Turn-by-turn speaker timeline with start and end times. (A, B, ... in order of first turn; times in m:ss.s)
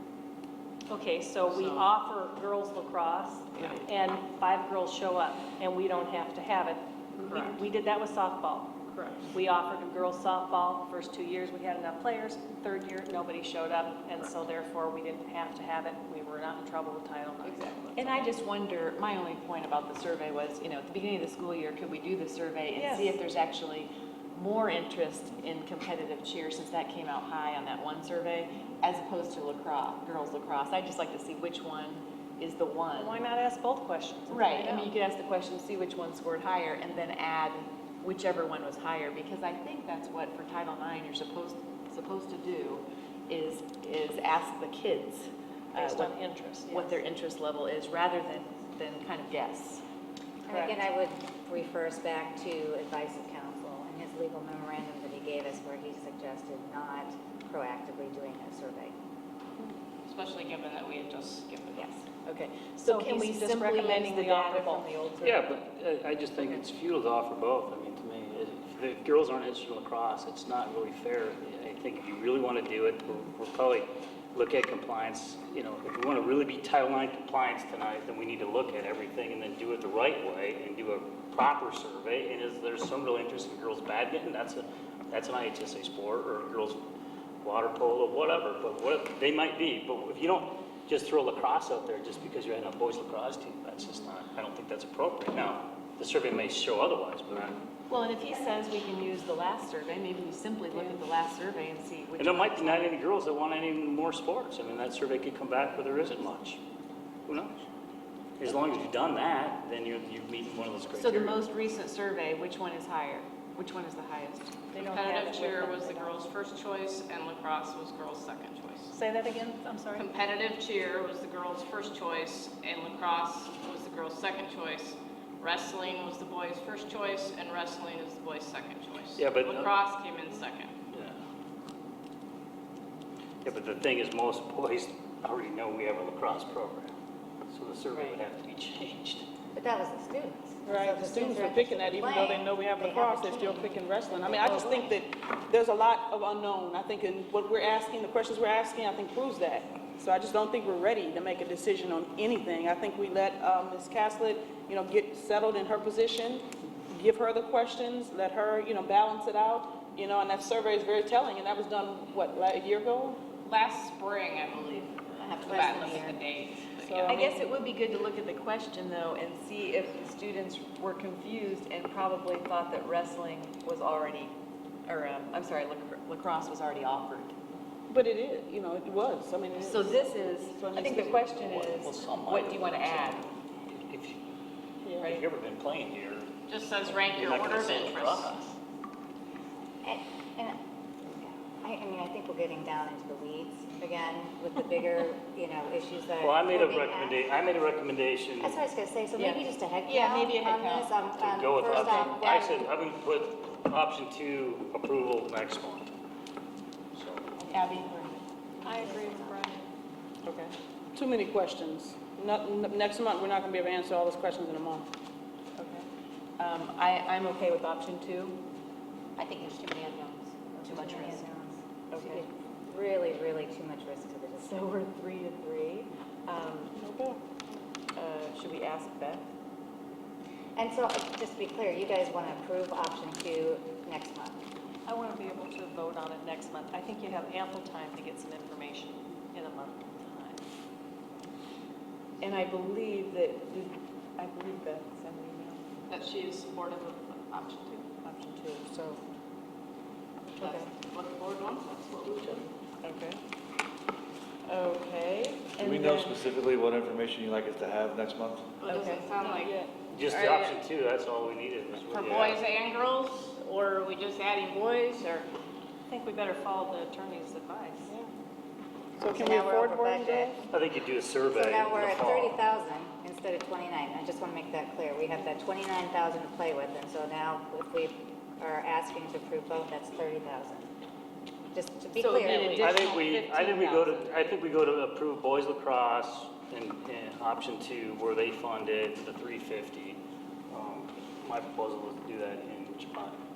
0:00.9-0:08.8 A
0:01.5-0:01.8 B
0:03.6-0:03.8 C
0:07.2-0:07.6 B
0:09.3-0:18.3 A
0:17.4-0:33.2 C
0:22.7-0:23.2 A
0:33.0-0:35.0 A
0:34.3-0:49.8 C
0:45.8-0:47.1 A
0:50.4-0:59.0 D
0:50.5-0:50.8 A
1:00.0-1:01.9 B
1:01.8-1:05.5 C
1:02.8-1:04.9 A
1:05.2-1:26.8 E
1:27.4-1:37.6 E
1:37.9-1:43.0 C
1:42.2-1:46.6 E
1:47.3-1:47.6 E
1:48.4-1:51.4 E
1:51.0-1:54.6 C
1:54.7-1:56.2 A
1:54.8-1:58.9 B
1:58.9-2:00.1 A
1:59.9-2:10.7 B
2:09.2-2:09.7 E
2:10.9-2:11.2 E
2:13.4-2:16.9 E
2:17.5-2:19.2 E
2:19.5-2:25.0 D
2:20.6-2:43.2 F
2:43.4-2:47.2 B
2:45.5-2:46.2 D
2:46.8-2:47.5 F
2:47.1-2:54.3 C
2:54.8-2:57.3 C
2:57.9-3:01.4 F
2:59.6-3:03.3 C
3:01.3-3:04.2 E
3:04.8-3:05.2 F
3:05.0-3:08.6 E
3:06.5-3:08.3 B
3:09.8-3:17.2 D
3:16.2-3:18.6 E
3:18.4-3:22.7 D
3:19.2-3:20.9 C
3:21.2-3:25.9 E
3:26.9-3:27.3 E
3:27.4-3:29.3 C
3:28.6-3:29.6 A
3:30.9-3:34.8 F
3:35.6-3:35.8 C
3:36.4-3:38.4 C
3:39.2-3:41.3 C
3:40.6-3:44.6 D
3:41.9-3:42.2 C
3:44.4-3:46.7 C
3:46.7-3:47.2 F
3:47.9-3:49.3 C
3:50.6-3:54.4 D
3:54.8-4:00.4 A
4:02.2-4:05.6 C
4:05.9-4:07.9 B
4:08.0-4:09.0 C
4:10.4-4:10.7 C
4:10.4-4:12.5 B
4:12.8-4:13.2 C
4:14.5-4:16.2 C
4:15.6-4:18.4 G
4:18.6-4:19.6 B
4:18.7-4:19.0 C
4:19.2-4:19.7 F
4:19.9-4:22.4 E
4:20.1-4:20.6 B
4:21.9-4:25.3 B
4:25.9-4:27.9 A
4:29.0-4:30.4 F
4:29.1-4:30.4 D
4:30.5-4:32.3 E
4:31.3-4:40.7 D
4:41.5-4:42.8 D
4:42.0-4:44.0 C
4:42.6-4:53.2 E